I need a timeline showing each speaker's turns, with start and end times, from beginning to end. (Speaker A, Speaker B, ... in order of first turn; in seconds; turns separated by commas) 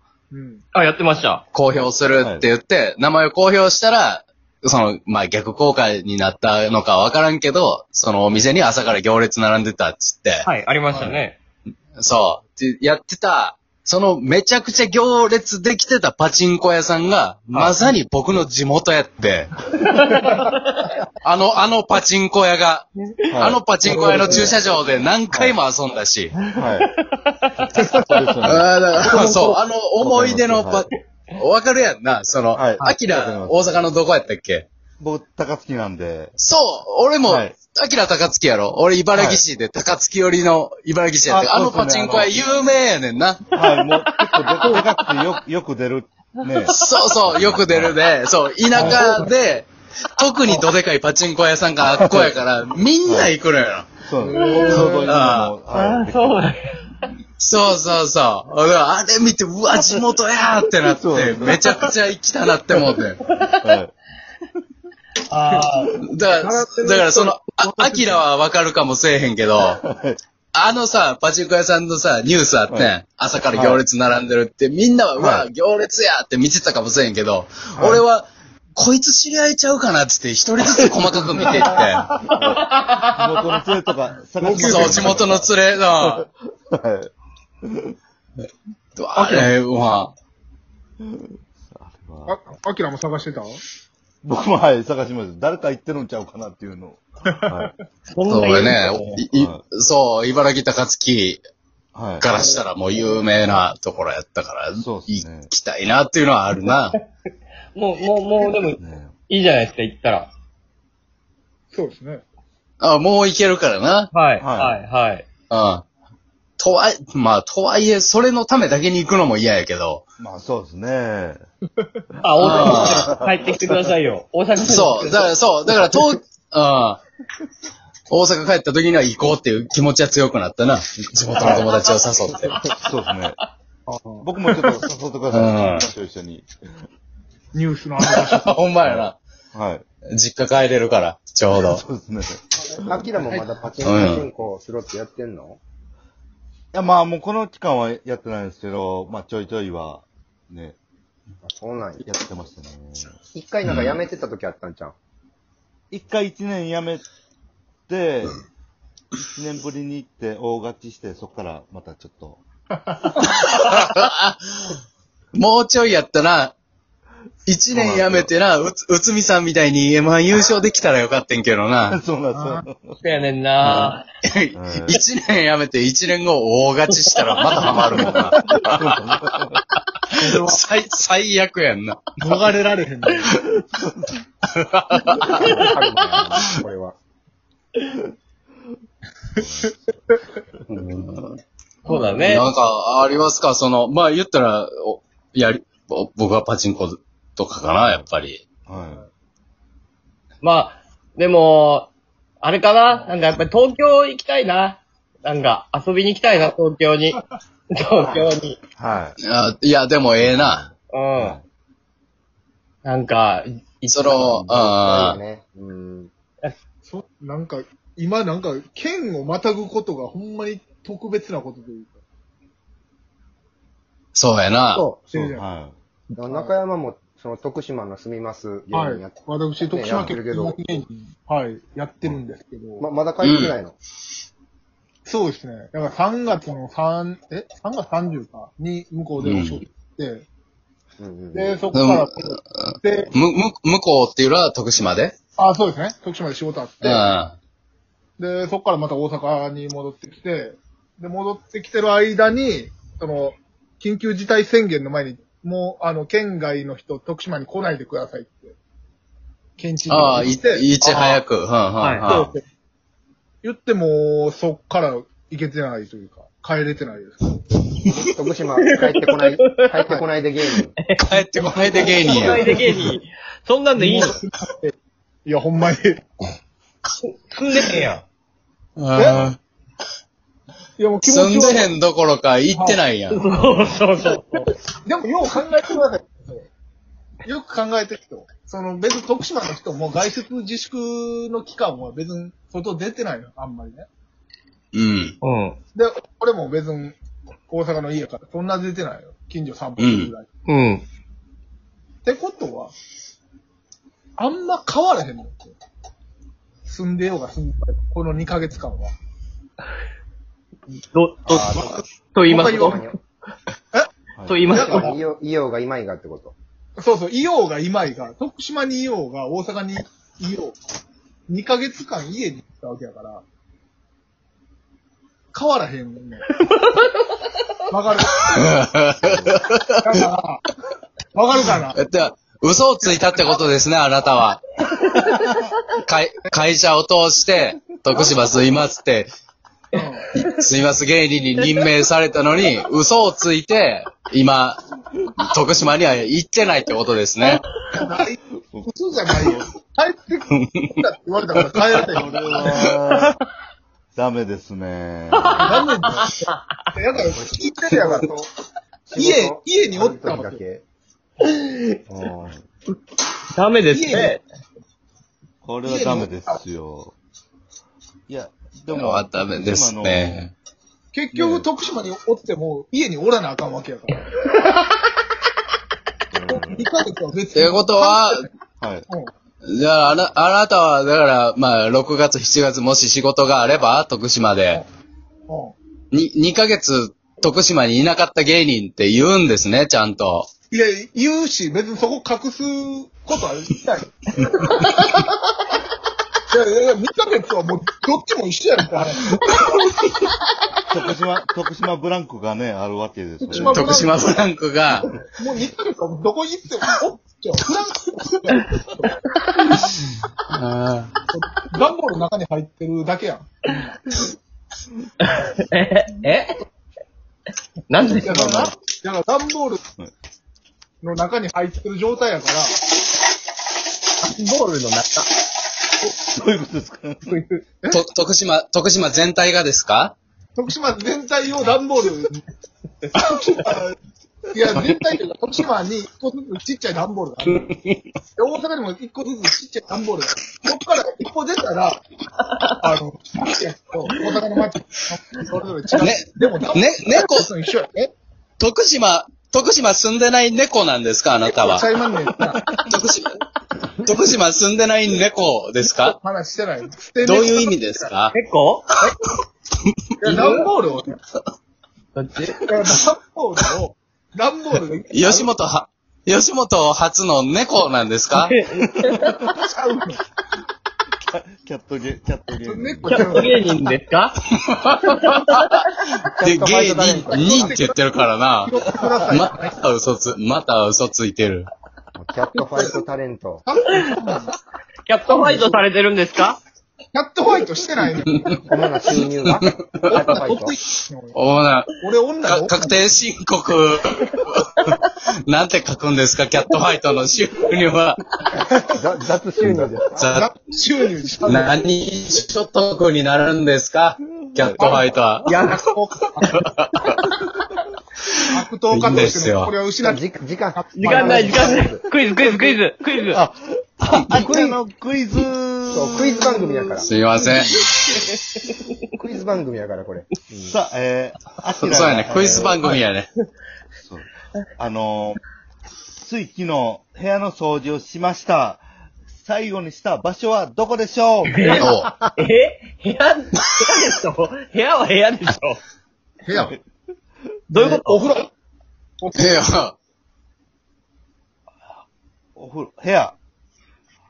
Speaker A: 0.3-0.6, Speaker B: 0.7-1.4, Speaker C: 1.5-10.4, Speaker D: 2.2-2.5, Speaker B: 10.4-11.4, Speaker D: 10.9-11.2, Speaker C: 12.0-19.5, Speaker B: 17.5-17.9, Speaker B: 19.8-20.9, Speaker C: 21.2-26.3, Speaker D: 23.3-24.6, Speaker B: 23.9-24.4, Speaker A: 24.0-24.3, Speaker D: 25.3-25.6, Speaker B: 26.4-27.7, Speaker D: 26.5-26.9, Speaker D: 27.8-29.2, Speaker C: 28.4-34.7, Speaker D: 30.0-30.9, Speaker D: 32.5-33.8, Speaker D: 35.0-36.4, Speaker C: 36.4-43.5, Speaker D: 37.2-37.5, Speaker D: 39.1-39.4, Speaker D: 41.2-42.3, Speaker D: 43.5-48.0, Speaker B: 43.8-45.2, Speaker B: 46.6-46.9, Speaker C: 46.7-54.0, Speaker D: 48.7-49.0, Speaker A: 48.8-49.2, Speaker D: 53.0-53.3, Speaker D: 54.0-56.4, Speaker A: 54.2-55.1, Speaker B: 54.4-55.0, Speaker C: 55.0-55.5, Speaker B: 55.7-57.0, Speaker C: 57.4-63.2, Speaker D: 59.8-60.0, Speaker D: 60.8-61.8, Speaker D: 62.9-63.9, Speaker B: 63.2-63.8, Speaker B: 65.3-65.9, Speaker C: 66.0-69.8, Speaker A: 66.2-68.2, Speaker D: 69.6-70.2, Speaker C: 70.5-82.1, Speaker D: 73.5-73.8, Speaker D: 75.2-75.5, Speaker D: 77.7-78.0, Speaker A: 81.4-82.3, Speaker B: 82.3-83.7, Speaker D: 82.3-87.1, Speaker A: 84.4-85.2, Speaker C: 84.5-86.3, Speaker D: 87.6-88.0, Speaker C: 89.0-90.1, Speaker A: 89.1-89.5, Speaker D: 91.0-92.4, Speaker A: 92.3-93.6, Speaker D: 94.2-97.7, Speaker A: 97.3-97.7, Speaker B: 98.1-99.2, Speaker C: 98.3-101.4, Speaker D: 99.3-99.6, Speaker D: 101.9-102.3, Speaker C: 102.2-107.0, Speaker D: 104.7-105.5, Speaker B: 107.7-110.3, Speaker D: 108.8-109.1, Speaker A: 111.7-112.2, Speaker C: 112.8-114.1, Speaker B: 114.1-115.2, Speaker D: 114.4-114.8, Speaker C: 115.5-115.8, Speaker C: 116.6-120.0, Speaker D: 120.2-121.4, Speaker B: 122.2-125.3, Speaker D: 122.2-123.3, Speaker C: 122.4-123.1, Speaker C: 124.6-127.0, Speaker C: 128.1-132.6, Speaker A: 131.4-131.7, Speaker B: 131.5-132.7, Speaker D: 132.7-133.4, Speaker A: 133.9-134.2, Speaker D: 134.2-136.5, Speaker C: 135.3-135.9, Speaker A: 137.5-138.5, Speaker C: 138.0-139.2, Speaker D: 138.8-139.8, Speaker C: 140.1-141.8, Speaker D: 141.5-143.1, Speaker E: 142.8-145.6, Speaker C: 143.8-144.2, Speaker D: 146.7-150.8, Speaker E: 151.4-152.1, Speaker D: 152.0-153.2, Speaker E: 153.3-154.9, Speaker C: 153.7-153.9, Speaker D: 155.9-157.0, Speaker D: 157.9-158.4, Speaker D: 159.1-162.4, Speaker A: 162.9-163.3, Speaker C: 163.3-164.8, Speaker C: 165.3-166.5, Speaker C: 167.4-172.0, Speaker D: 167.7-168.3, Speaker D: 171.9-173.1, Speaker A: 172.3-172.7, Speaker B: 173.0-174.0, Speaker C: 173.6-179.3, Speaker D: 174.5-175.0, Speaker B: 176.9-178.4, Speaker D: 177.4-179.6, Speaker A: 180.2-180.6, Speaker C: 180.2-182.3, Speaker A: 182.2-183.4, Speaker C: 184.5-185.6, Speaker B: 185.1-185.7, Speaker A: 185.2-185.6, Speaker E: 185.3-187.0, Speaker A: 189.4-189.7, Speaker D: 189.4-189.7, Speaker C: 190.7-191.4, Speaker A: 191.8-192.3, Speaker B: 191.9-192.5, Speaker C: 192.2-198.4, Speaker D: 198.7-199.0, Speaker B: 200.4-201.9, Speaker B: 202.4-207.2, Speaker B: 207.7-208.6, Speaker E: 208.0-208.3, Speaker D: 208.8-209.2, Speaker C: 209.2-210.6, Speaker D: 210.2-211.4, Speaker B: 210.9-211.4, Speaker B: 212.8-214.4, Speaker C: 213.9-215.2, Speaker E: 214.2-216.1, Speaker A: 216.8-222.0, Speaker C: 224.1-224.8, Speaker A: 224.7-225.4, Speaker D: 225.2-225.7, Speaker A: 226.1-226.6, Speaker E: 226.2-230.7, Speaker A: 228.7-232.9, Speaker E: 232.8-233.8, Speaker C: 233.2-233.6, Speaker A: 235.1-240.2, Speaker C: 239.2-239.6, Speaker E: 241.0-241.6, Speaker A: 241.3-243.1, Speaker C: 241.7-245.1, Speaker A: 245.4-247.1, Speaker C: 246.8-247.3, Speaker A: 248.2-258.5, Speaker A: 259.6-261.2, Speaker C: 259.9-262.3, Speaker B: 261.8-262.1, Speaker A: 262.1-262.4, Speaker A: 263.4-267.4, Speaker E: 267.9-270.8, Speaker B: 268.6-269.6, Speaker B: 270.8-274.1, Speaker C: 270.9-272.5, Speaker A: 271.6-272.9, Speaker A: 273.7-274.7, Speaker A: 275.2-276.1, Speaker B: 277.0-278.0, Speaker C: 278.8-279.4, Speaker A: 278.9-279.3, Speaker A: 280.8-281.7, Speaker C: 281.0-283.2, Speaker A: 282.5-282.8, Speaker B: 283.1-284.5, Speaker A: 284.0-286.5, Speaker A: 287.2-293.9, Speaker C: 294.7-295.1, Speaker B: 295.2-295.6, Speaker A: 295.7-297.0, Speaker A: 297.5-300.3, Speaker C: 299.8-300.1, Speaker B: 300.5-300.8, Speaker A: 302.0-302.7, Speaker A: 304.2-305.5, Speaker A: 306.6-308.9, Speaker B: 310.8-312.9, Speaker E: 311.2-311.8, Speaker A: 312.2-312.7, Speaker E: 312.5-313.0, Speaker D: 314.1-314.5, Speaker B: 314.2-315.0, Speaker A: 314.5-314.9, Speaker E: 314.5-316.3, Speaker A: 316.8-320.6, Speaker A: 321.3-323.2, Speaker A: 325.3-326.3, Speaker B: 326.4-327.4, Speaker A: 327.7-328.6, Speaker C: 328.2-329.9, Speaker E: 329.0-329.4, Speaker A: 329.8-330.4, Speaker A: 331.1-331.8, Speaker C: 331.6-334.6, Speaker A: 332.9-333.4, Speaker B: 334.6-335.3, Speaker C: 335.8-339.1, Speaker A: 339.7-340.1, Speaker C: 340.1-344.6, Speaker C: 345.3-347.4, Speaker A: 347.7-352.6, Speaker D: 348.4-349.5, Speaker D: 351.7-353.1, Speaker D: 353.9-355.6, Speaker B: 355.3-356.1, Speaker A: 355.4-358.1, Speaker E: 356.9-358.3, Speaker E: 358.9-360.6, Speaker A: 358.9-360.4, Speaker B: 361.2-361.8, Speaker D: 362.0-362.4, Speaker B: 363.3-364.2, Speaker A: 363.7-364.2, Speaker D: 365.4-366.9, Speaker A: 365.6-366.4, Speaker D: 368.1-370.3, Speaker C: 368.7-370.3, Speaker A: 370.9-374.1, Speaker D: 371.1-371.5, Speaker D: 376.1-376.6, Speaker A: 376.3-378.3, Speaker C: 377.3-378.2, Speaker D: 378.6-378.9, Speaker C: 379.4-384.6, Speaker A: 385.3-385.5, Speaker C: 385.9-390.3, Speaker A: 390.5-395.0, Speaker A: 396.3-399.7, Speaker D: 400.7-403.7, Speaker A: 403.2-404.1, Speaker C: 403.3-404.9, Speaker A: 405.2-408.9, Speaker C: 410.3-410.9, Speaker A: 411.1-413.8, Speaker B: 415.0-416.4, Speaker B: 417.7-418.4, Speaker D: 417.9-418.5, Speaker A: 417.9-419.6, Speaker A: 420.8-422.6, Speaker B: 424.0-425.1, Speaker D: 426.1-427.1, Speaker B: 427.1-427.4, Speaker C: 427.7-429.9, Speaker A: 430.4-432.2, Speaker A: 432.9-433.8, Speaker A: 434.3-437.4, Speaker C: 437.3-437.8, Speaker A: 438.2-441.8, Speaker B: 442.2-442.7, Speaker A: 442.6-447.9, Speaker C: 445.8-447.3, Speaker C: 448.4-451.6, Speaker A: 451.2-452.4, Speaker C: 452.6-453.1, Speaker C: 453.8-455.9, Speaker A: 455.8-457.9, Speaker C: 457.0-458.1, Speaker B: 458.1-458.7, Speaker A: 460.0-460.9, Speaker B: 460.1-460.5, Speaker B: 461.9-462.4, Speaker A: 462.4-465.3, Speaker C: 464.9-468.3, Speaker B: 468.1-469.2, Speaker A: 469.4-470.0, Speaker D: 471.1-473.2, Speaker A: 472.4-473.4, Speaker B: 472.9-474.2, Speaker C: 474.5-475.6, Speaker B: 474.8-475.6, Speaker E: 476.1-477.6, Speaker C: 476.2-481.5, Speaker A: 476.6-477.8, Speaker A: 478.4-479.6, Speaker E: 481.9-483.4, Speaker A: 482.5-482.8, Speaker A: 483.4-484.3, Speaker B: 484.9-486.4, Speaker A: 485.1-485.6, Speaker A: 486.9-488.4, Speaker E: 488.4-490.6, Speaker C: 489.4-490.0, Speaker A: 489.9-491.2, Speaker C: 491.1-498.0, Speaker A: 491.8-492.8, Speaker E: 498.4-500.1, Speaker C: 500.0-500.3, Speaker A: 500.1-501.5, Speaker C: 501.2-505.3, Speaker D: 504.2-504.7, Speaker A: 504.6-506.4, Speaker B: 505.3-505.6, Speaker C: 506.3-507.0, Speaker C: 508.2-509.5, Speaker A: 508.3-512.6, Speaker E: 509.8-511.8, Speaker B: 510.8-513.2, Speaker D: 513.1-516.4, Speaker E: 513.9-514.6, Speaker E: 515.7-517.0, Speaker C: 516.8-517.5, Speaker E: 519.0-520.5, Speaker D: 520.4-522.6, Speaker C: 521.6-523.1, Speaker D: 523.8-525.2, Speaker D: 526.0-528.6, Speaker D: 529.1-531.4, Speaker B: 531.3-535.6, Speaker C: 531.6-531.9, Speaker A: 536.2-536.5, Speaker B: 537.5-538.0, Speaker A: 537.5-538.3, Speaker A: 539.0-539.5, Speaker C: 539.1-539.8, Speaker D: 542.4-543.1